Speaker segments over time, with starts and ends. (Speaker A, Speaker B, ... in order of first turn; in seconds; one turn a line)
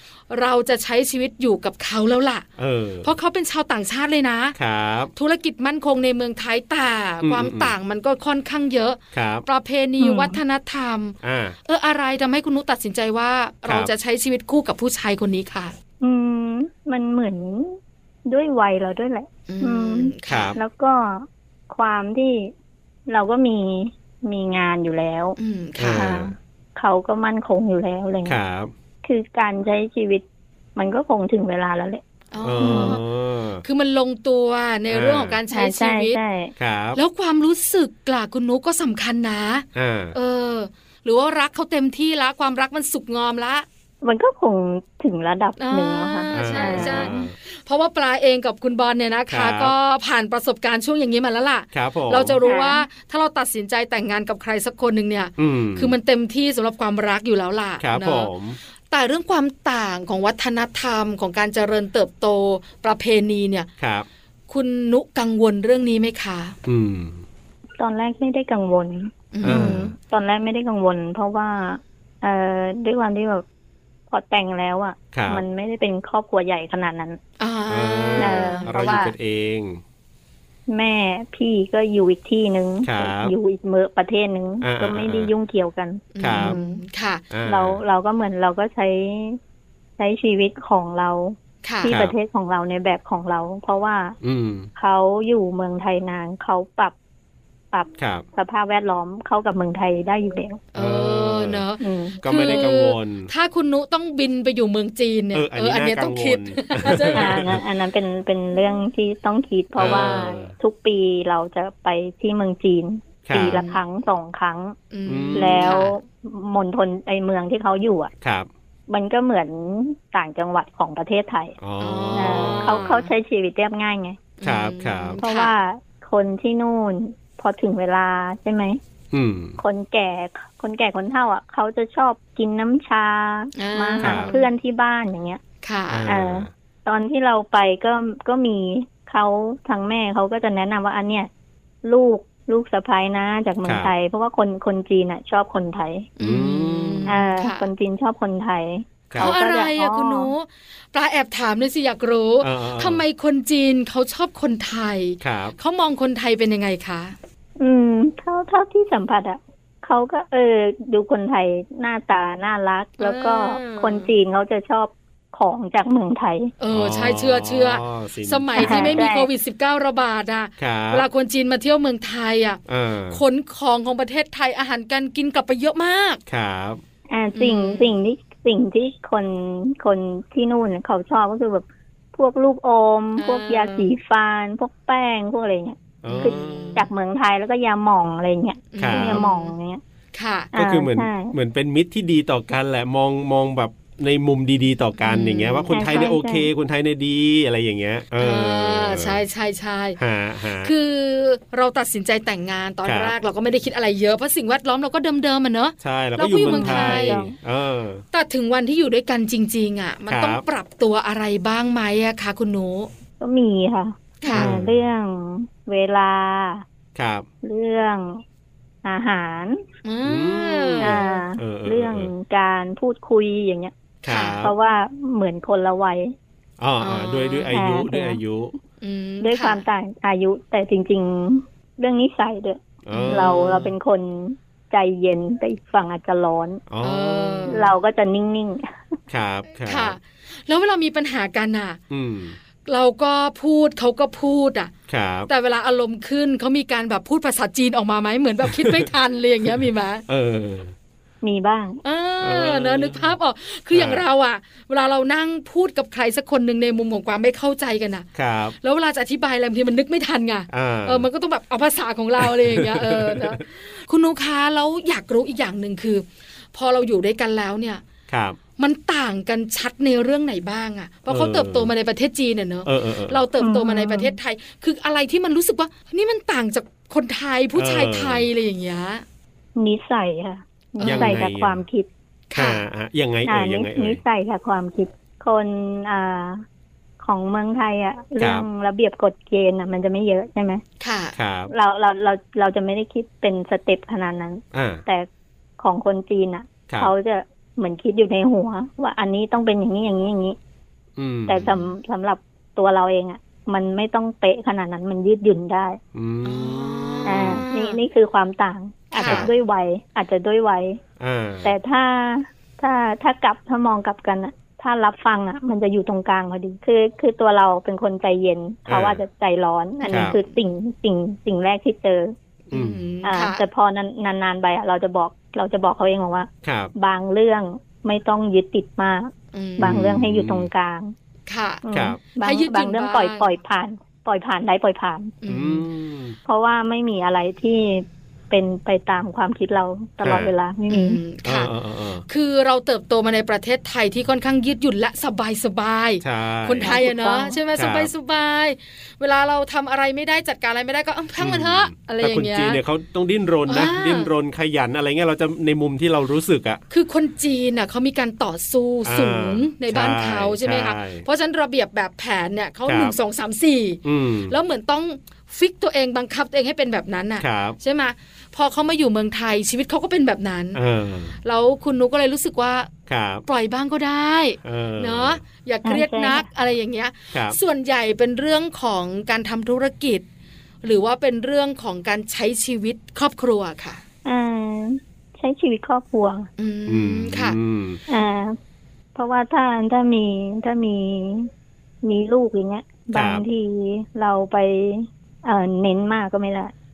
Speaker A: 0.3-2.5
Speaker B: 2.6-3.1
Speaker A: 3.0-4.6
Speaker B: 4.6-5.1
Speaker A: 5.2-15.7
Speaker B: 7.2-7.7
Speaker B: 9.1-9.5
Speaker C: 10.0-10.4
Speaker B: 11.2-11.6
Speaker B: 13.7-13.9
Speaker C: 16.0-22.5
Speaker A: 19.5-20.6
Speaker B: 20.3-20.6
Speaker C: 23.1-25.4
Speaker A: 25.4-26.2
Speaker B: 25.8-26.3
Speaker C: 25.9-28.4
Speaker B: 28.2-28.7
Speaker C: 29.0-30.2
Speaker C: 30.8-32.0
Speaker A: 32.3-33.0
Speaker B: 32.4-33.6
Speaker C: 32.6-33.0
Speaker A: 33.6-36.2
Speaker B: 34.9-35.4
Speaker C: 35.5-36.5
Speaker B: 36.6-37.0
Speaker A: 37.0-43.7
Speaker B: 39.8-40.1
Speaker C: 44.0-47.2
Speaker A: 45.6-58.3
Speaker B: 46.3-47.4
Speaker B: 49.3-49.7
Speaker B: 51.7-52.4
Speaker C: 52.4-52.8
Speaker B: 55.4-55.9
Speaker B: 57.8-58.6
Speaker A: 58.9-63.7
Speaker B: 63.8-64.1
Speaker A: 64.5-66.6
Speaker B: 66.7-67.2
Speaker C: 67.8-73.5
Speaker A: 69.3-69.9
Speaker B: 69.4-69.9
Speaker C: 74.1-77.2
Speaker B: 75.1-75.4
Speaker A: 77.4-79.1
Speaker B: 77.7-79.8
Speaker C: 78.2-79.1
Speaker C: 80.7-86.8
Speaker B: 82.8-83.3
Speaker B: 84.6-85.3
Speaker A: 86.1-87.2
Speaker B: 86.2-86.6
Speaker B: 87.3-87.8
Speaker C: 87.5-89.4
Speaker C: 90.0-94.2
Speaker A: 91.6-91.9
Speaker B: 91.9-92.2
Speaker B: 94.2-94.7
Speaker C: 94.8-96.9
Speaker C: 97.7-100.6
Speaker B: 98.0-98.2
Speaker A: 100.7-107.5
Speaker B: 100.8-101.6
Speaker C: 101.8-102.6
Speaker B: 102.2-103.3
Speaker B: 105.3-107.6
Speaker C: 107.1-114.8
Speaker B: 109.8-110.5
Speaker B: 113.3-113.6
Speaker A: 113.5-113.8
Speaker A: 114.9-115.9
Speaker B: 115.1-115.8
Speaker C: 115.3-118.1
Speaker B: 118.2-118.5
Speaker C: 118.9-121.6
Speaker B: 121.6-122.8
Speaker A: 121.8-123.1
Speaker C: 122.2-124.2
Speaker A: 124.4-125.5
Speaker B: 124.4-125.2
Speaker C: 125.2-128.8
Speaker B: 129.1-129.6
Speaker C: 129.6-135.4
Speaker A: 133.6-134.5
Speaker B: 134.0-134.3
Speaker A: 135.6-136.1
Speaker B: 135.9-136.5
Speaker C: 136.1-141.3
Speaker C: 141.8-146.1
Speaker B: 143.6-143.9
Speaker A: 146.2-147.7
Speaker B: 146.2-147.2
Speaker C: 147.1-150.3
Speaker B: 149.1-149.3
Speaker A: 149.2-157.2
Speaker B: 152.4-153.0
Speaker B: 155.2-155.6
Speaker C: 157.6-166.5
Speaker A: 163.0-164.1
Speaker A: 166.6-172.6
Speaker B: 166.7-169.0
Speaker C: 168.6-169.3
Speaker B: 170.6-171.1
Speaker B: 172.7-173.2
Speaker A: 173.1-176.2
Speaker B: 176.3-176.8
Speaker C: 177.1-189.8
Speaker A: 177.3-177.9
Speaker A: 183.2-183.9
Speaker B: 186.0-186.8
Speaker A: 186.1-186.9
Speaker A: 188.7-189.5
Speaker B: 188.8-189.2
Speaker A: 190.1-190.5
Speaker C: 190.5-191.3
Speaker B: 190.5-199.2
Speaker A: 195.0-196.1
Speaker C: 195.7-196.5
Speaker A: 198.2-200.0
Speaker B: 200.0-200.7
Speaker A: 200.6-207.2
Speaker B: 202.8-203.1
Speaker B: 205.8-208.0
Speaker C: 206.4-207.3
Speaker A: 208.1-212.9
Speaker B: 210.1-210.4
Speaker C: 213.2-216.6
Speaker A: 214.2-214.5
Speaker B: 214.3-214.9
Speaker B: 216.9-217.3
Speaker C: 217.4-218.2
Speaker C: 218.8-219.6
Speaker A: 219.8-221.2
Speaker B: 220.1-222.1
Speaker C: 220.8-223.7
Speaker A: 224.0-224.4
Speaker B: 224.1-224.5
Speaker C: 224.4-226.2
Speaker B: 226.6-228.5
Speaker A: 226.8-227.5
Speaker C: 227.5-228.2
Speaker A: 228.8-229.6
Speaker C: 229.2-236.6
Speaker B: 232.8-233.7
Speaker A: 232.9-233.6
Speaker B: 236.7-237.7
Speaker A: 236.8-237.7
Speaker C: 237.5-239.0
Speaker B: 239.1-240.0
Speaker A: 239.6-241.8
Speaker B: 241.9-242.4
Speaker A: 242.7-244.7
Speaker B: 244.9-245.3
Speaker A: 245.3-250.0
Speaker B: 248.5-248.9
Speaker B: 250.1-250.7
Speaker C: 251.2-251.8
Speaker A: 251.8-258.1
Speaker B: 252.2-253.1
Speaker B: 253.7-254.0
Speaker B: 258.1-258.6
Speaker A: 258.6-267.8
Speaker B: 260.5-261.1
Speaker B: 262.2-263.4
Speaker B: 268.1-268.4
Speaker A: 268.6-279.0
Speaker B: 271.1-271.7
Speaker B: 272.7-273.2
Speaker C: 273.4-274.1
Speaker B: 277.6-278.3
Speaker C: 279.6-281.9
Speaker A: 280.8-281.2
Speaker B: 280.8-281.6
Speaker A: 282.3-282.6
Speaker B: 282.4-284.0
Speaker C: 283.2-286.4
Speaker C: 287.0-290.6
Speaker B: 288.2-288.5
Speaker A: 290.8-291.1
Speaker B: 291.2-291.5
Speaker C: 291.5-295.1
Speaker B: 294.5-294.8
Speaker C: 295.6-300.4
Speaker B: 301.0-301.6
Speaker C: 301.3-305.8
Speaker B: 305.9-307.4
Speaker A: 306.2-307.8
Speaker C: 307.1-310.8
Speaker A: 308.9-309.3
Speaker B: 309.0-309.3
Speaker B: 311.0-311.6
Speaker C: 311.4-322.1
Speaker B: 318.7-319.0
Speaker A: 319.8-320.4
Speaker B: 319.9-320.2
Speaker A: 322.5-323.4
Speaker B: 322.5-322.8
Speaker C: 323.0-330.9
Speaker B: 326.4-326.7
Speaker A: 329.3-329.8
Speaker B: 329.6-330.5
Speaker A: 331.3-331.6
Speaker C: 331.6-335.1
Speaker B: 331.7-332.0
Speaker A: 332.2-333.3
Speaker A: 335.2-335.6
Speaker B: 335.3-336.2
Speaker C: 336.3-341.0
Speaker B: 340.0-340.3
Speaker A: 340.7-341.5
Speaker B: 341.2-342.0
Speaker A: 342.1-352.6
Speaker B: 346.0-346.7
Speaker C: 346.6-347.4
Speaker B: 347.6-347.9
Speaker B: 351.2-356.6
Speaker A: 353.5-354.1
Speaker A: 356.7-370.6
Speaker B: 358.9-361.1
Speaker B: 362.7-362.9
Speaker B: 363.8-364.4
Speaker B: 367.2-367.6
Speaker B: 370.5-371.1
Speaker A: 371.2-372.7
Speaker B: 372.9-373.2
Speaker A: 373.3-380.1
Speaker B: 374.4-375.2
Speaker C: 375.6-376.3
Speaker B: 377.1-377.4
Speaker A: 380.6-383.8
Speaker C: 384.1-386.3
Speaker A: 386.4-387.4
Speaker B: 386.7-387.8
Speaker C: 387.9-388.4
Speaker C: 388.9-391.3
Speaker C: 391.8-396.5
Speaker B: 392.9-393.2